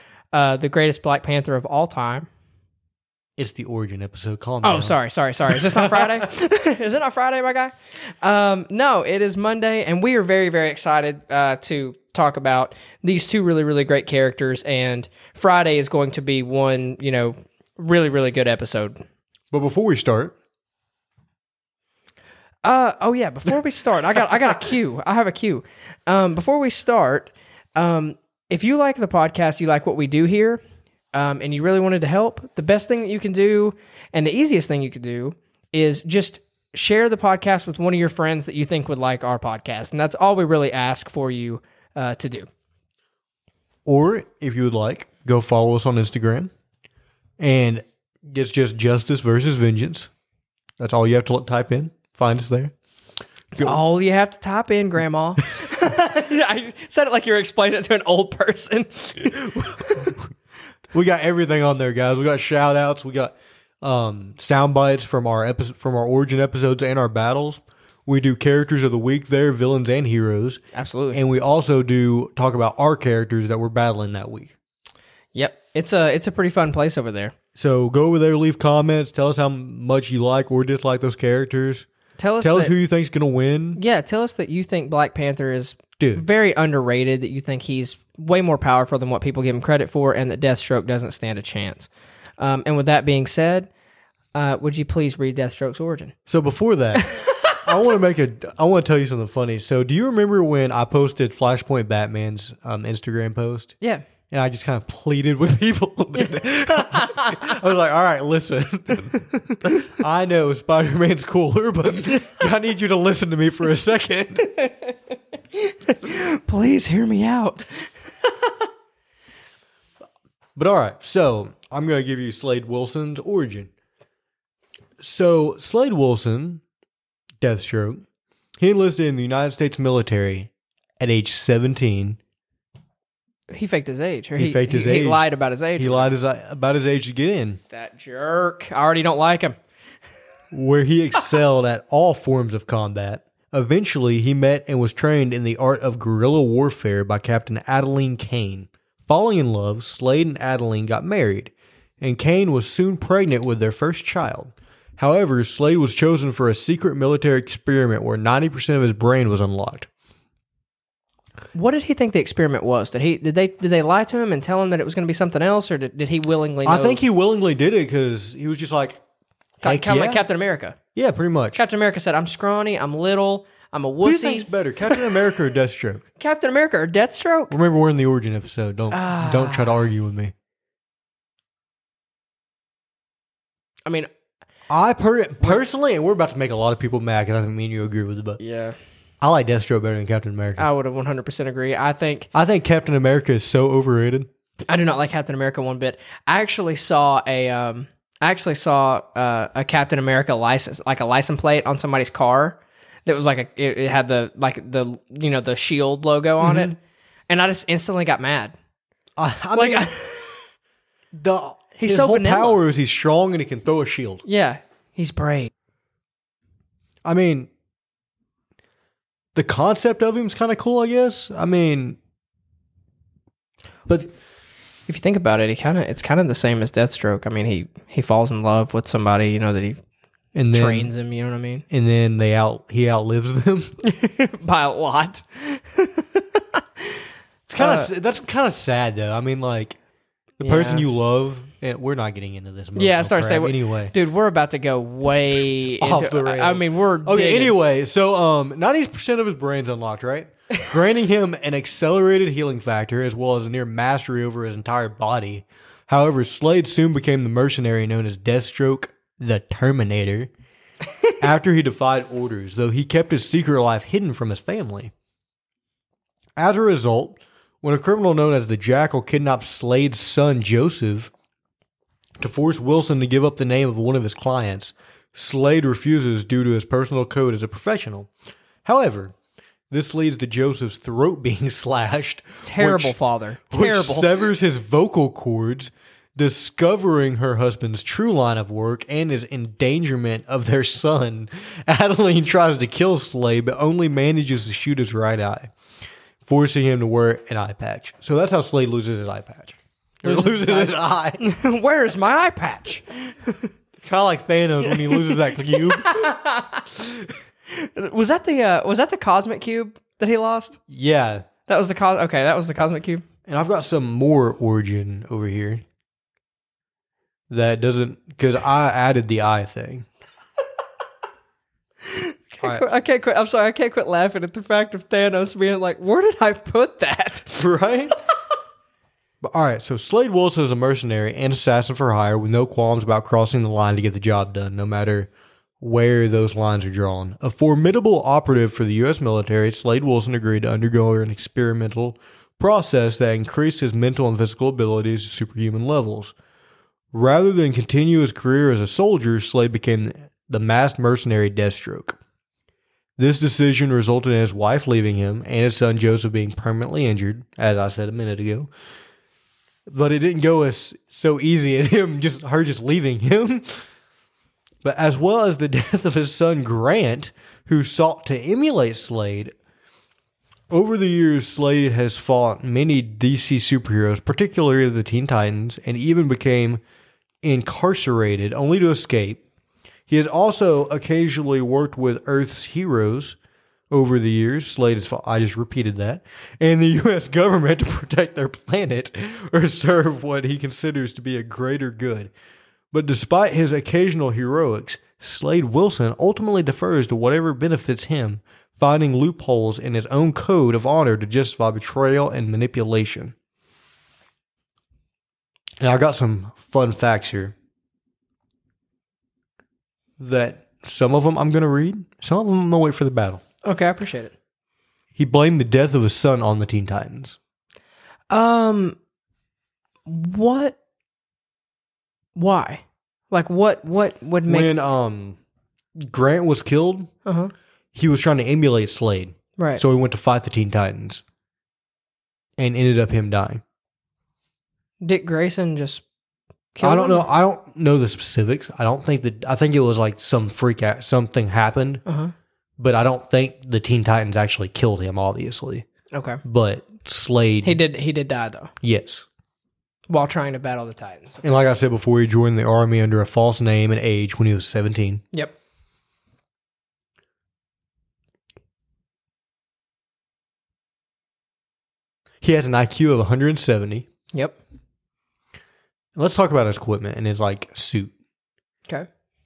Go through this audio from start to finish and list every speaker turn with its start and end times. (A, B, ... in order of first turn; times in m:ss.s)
0:00.3-0:02.3 A
0:03.4-0:06.3 B
0:04.6-0:19.0 A
0:19.5-0:20.4 B
0:22.6-0:30.6 A
0:31.1-0:42.5 A
0:43.9-0:46.5 B
0:47.4-0:50.1 B
0:50.8-0:52.7 B
0:53.5-0:53.8 B
0:53.6-1:00.2 A
1:00.9-1:14.6 B
1:10.7-1:11.2 A
1:15.4-1:17.3 A
1:17.6-1:21.9 B
1:22.2-1:22.7 A
1:22.4-1:23.8 B
1:23.8-1:33.7 A
1:26.0-1:26.2 B
1:34.3-1:36.1 A
1:36.3-1:43.8 B
1:37.0-1:37.6 A
1:44.3-1:54.5 B
1:46.8-1:47.6 A
1:49.5-1:49.8 A
1:54.6-1:54.9 A
1:55.5-1:57.7 A
2:00.6-2:03.7 B
2:05.0-2:06.6 B
2:07.4-2:08.0 B
2:08.6-2:12.2 B
2:13.5-2:16.1 A
2:14.4-2:15.3 B
2:15.8-2:17.6 B
2:17.7-2:19.6 A
2:20.5-2:39.9 B
2:41.5-2:47.0 A
2:46.6-2:49.0 B
2:49.6-2:50.8 A
2:49.6-2:50.2 B
2:51.0-2:51.6 B
2:51.6-2:55.1 A
2:54.0-2:56.1 B
2:56.2-2:57.5 A
2:57.5-3:00.3 B
2:58.9-2:59.9 A
3:04.7-3:08.4 B
3:08.4-3:08.8 A
3:09.2-3:10.7 B
3:10.6-3:12.3 A
3:12.3-3:14.3 B
3:14.7-3:26.8 A
3:26.4-3:26.8 B
3:27.3-3:28.5 A
3:29.2-3:29.9 B
3:29.5-3:30.4 A
3:31.1-3:34.2 B
3:31.8-3:32.6 A
3:34.2-3:35.5 A
3:37.0-3:37.5 B
3:39.4-3:42.0 B
3:44.9-3:49.8 A
3:50.3-3:50.9 B
3:50.5-3:51.6 A
3:51.7-3:53.8 B
3:53.8-3:57.0 A
3:57.5-3:59.8 B
3:57.6-3:57.9 A
4:00.4-4:03.9 B
4:00.4-4:00.9 A
4:02.8-4:07.6 A
4:05.7-4:20.3 B
4:21.2-4:24.9 B
4:26.4-4:31.1 B
4:32.2-4:38.1 B
4:38.6-4:39.1 B
4:39.7-4:43.0 B
4:42.4-4:44.1 A
4:43.5-4:55.5 B
4:56.2-5:01.3 B
5:00.0-5:03.4 A
5:03.8-5:06.1 B
5:04.7-5:06.8 A
5:07.5-5:10.6 A
5:10.7-5:11.3 B
5:11.5-5:13.0 A
5:13.3-5:15.6 B
5:17.3-5:19.9 B
5:21.8-5:27.5 A
5:22.4-5:22.7 B
5:27.4-5:28.0 B
5:29.2-5:46.1 B
5:46.9-5:52.0 B
5:53.0-5:58.5 B
5:59.7-6:03.6 B
6:04.6-6:09.3 B
6:10.5-6:16.6 B
6:17.2-6:19.2 B
6:19.9-6:23.2 B
6:23.7-6:32.1 B
6:32.7-6:43.1 B
6:45.6-6:47.3 B
6:50.0-6:53.2 B
6:53.4-6:54.2 A
6:55.0-6:57.2 B
6:58.1-6:58.8 A
6:59.9-7:00.6 A
7:02.2-7:04.5 A
7:04.3-7:05.2 B
7:05.8-7:06.9 B
7:07.1-7:07.3 A
7:07.7-7:11.0 B
7:09.4-7:09.6 A
7:12.4-7:13.4 B
7:14.8-7:15.8 A
7:16.6-7:17.0 A
7:16.6-7:21.8 B
7:21.9-7:22.1 A
7:22.6-7:25.7 B
7:25.9-7:26.2 A
7:26.2-7:27.6 B
7:27.4-7:28.5 A
7:28.6-7:29.1 B
7:29.9-7:31.2 A
7:31.2-7:35.0 B
7:42.2-7:43.9 B
7:44.1-7:44.4 A
7:46.0-7:47.9 B